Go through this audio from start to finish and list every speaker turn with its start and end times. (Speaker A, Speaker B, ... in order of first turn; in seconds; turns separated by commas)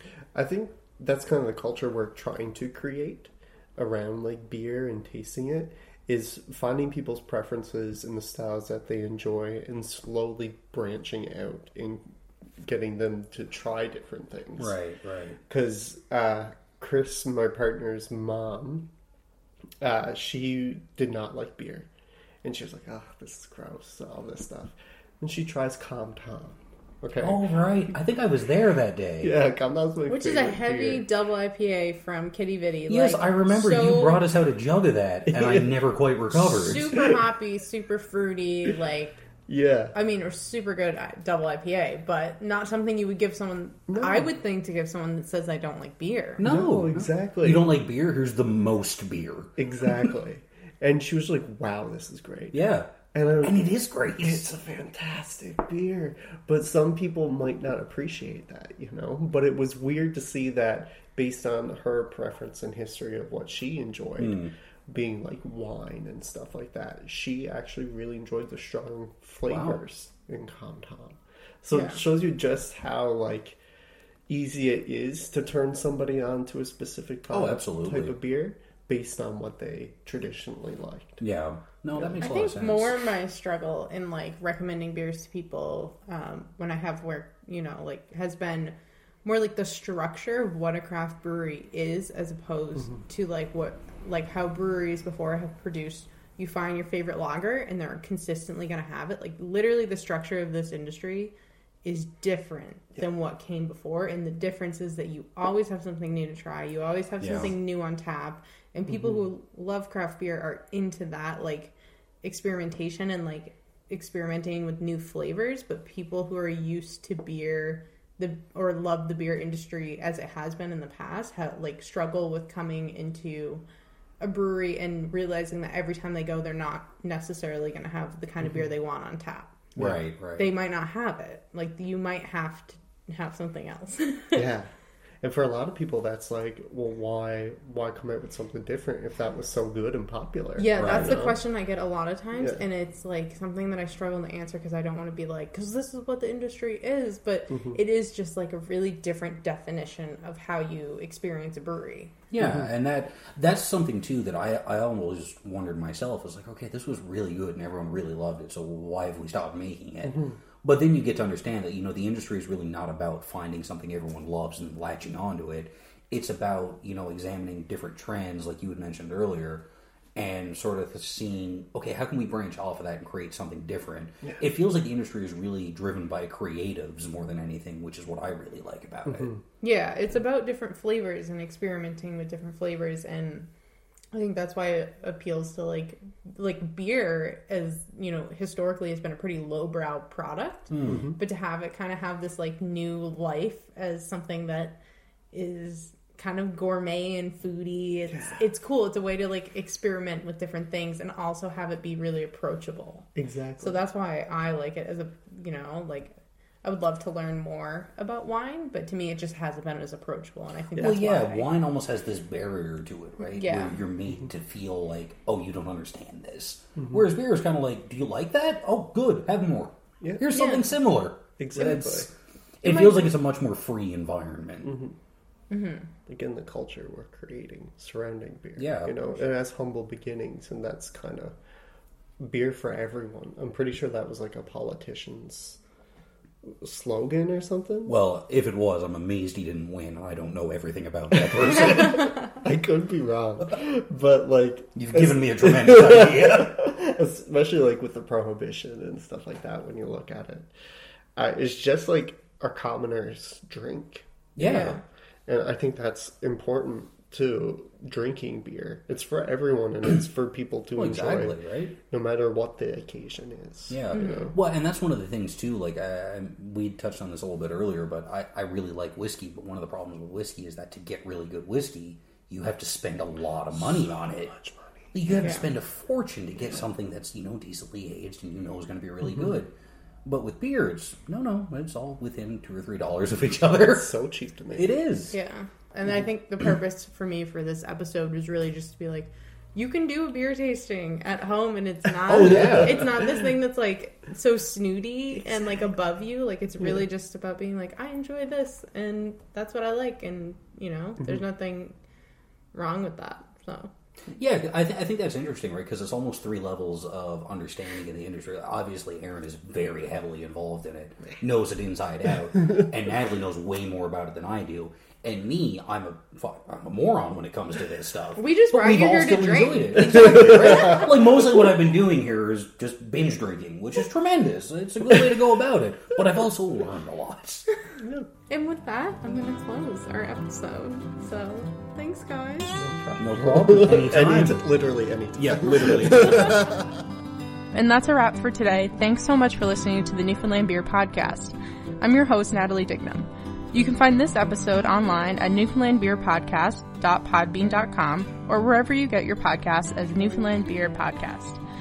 Speaker A: 0.3-14.8, Speaker B: 14.6-15.4, Speaker A: 15.4-18.9, Speaker A: 19.8-21.9, Speaker A: 22.4-27.4, Speaker B: 27.2-29.4, Speaker A: 29.2-31.1, Speaker C: 30.1-34.2, Speaker B: 32.9-37.2, Speaker C: 36.4-39.2, Speaker A: 39.5-39.9, Speaker C: 39.9-46.4, Speaker A: 43.9-44.3, Speaker B: 46.4-49.5, Speaker A: 46.4-47.7, Speaker A: 49.6-73.6, Speaker B: 52.5-54.5, Speaker B: 64.2-64.5, Speaker B: 69.5-69.8, Speaker C: 71.7-72.0, Speaker A: 74.3-81.2, Speaker B: 77.3-78.1, Speaker B: 81.2-83.0, Speaker C: 82.2-123.6, Speaker B: 107.2-107.5, Speaker C: 124.2-129.7, Speaker B: 129.8-130.5, Speaker C: 130.4-134.5, Speaker A: 134.3-134.7, Speaker A: 135.2-141.4, Speaker C: 140.6-152.2, Speaker B: 140.8-141.2, Speaker A: 147.5-147.8, Speaker B: 152.3-179.4, Speaker C: 179.6-183.5, Speaker C: 184.1-194.8, Speaker B: 190.7-191.1, Speaker A: 190.8-191.2, Speaker C: 195.3-203.1, Speaker A: 198.1-198.4, Speaker A: 203.1-203.8, Speaker C: 203.6-211.5, Speaker B: 210.8-224.8, Speaker C: 213.3-213.8, Speaker A: 220.0-220.3, Speaker C: 220.3-220.7, Speaker A: 221.4-222.1, Speaker C: 222.6-223.1, Speaker A: 224.6-224.9, Speaker C: 225.5-225.9, Speaker A: 226.1-231.3, Speaker B: 228.6-228.9, Speaker A: 232.2-235.6, Speaker A: 236.4-237.9, Speaker B: 237.8-242.1, Speaker A: 241.3-250.5, Speaker B: 244.7-246.6, Speaker A: 251.2-254.8, Speaker B: 254.3-254.8, Speaker C: 254.4-254.8, Speaker A: 255.3-264.2, Speaker B: 260.8-261.7, Speaker B: 263.7-274.3, Speaker C: 263.9-264.3, Speaker A: 274.2-274.9, Speaker B: 274.9-279.5, Speaker C: 275.2-275.4, Speaker B: 280.0-283.9, Speaker A: 283.7-284.8, Speaker B: 284.5-285.1, Speaker C: 285.1-301.8, Speaker B: 292.1-293.1, Speaker C: 302.5-303.7, Speaker B: 304.1-327.4, Speaker C: 318.2-320.3, Speaker A: 327.8-328.1, Speaker C: 328.3-332.6, Speaker A: 332.6-336.7, Speaker B: 333.0-334.4, Speaker B: 335.1-336.6, Speaker C: 337.5-351.4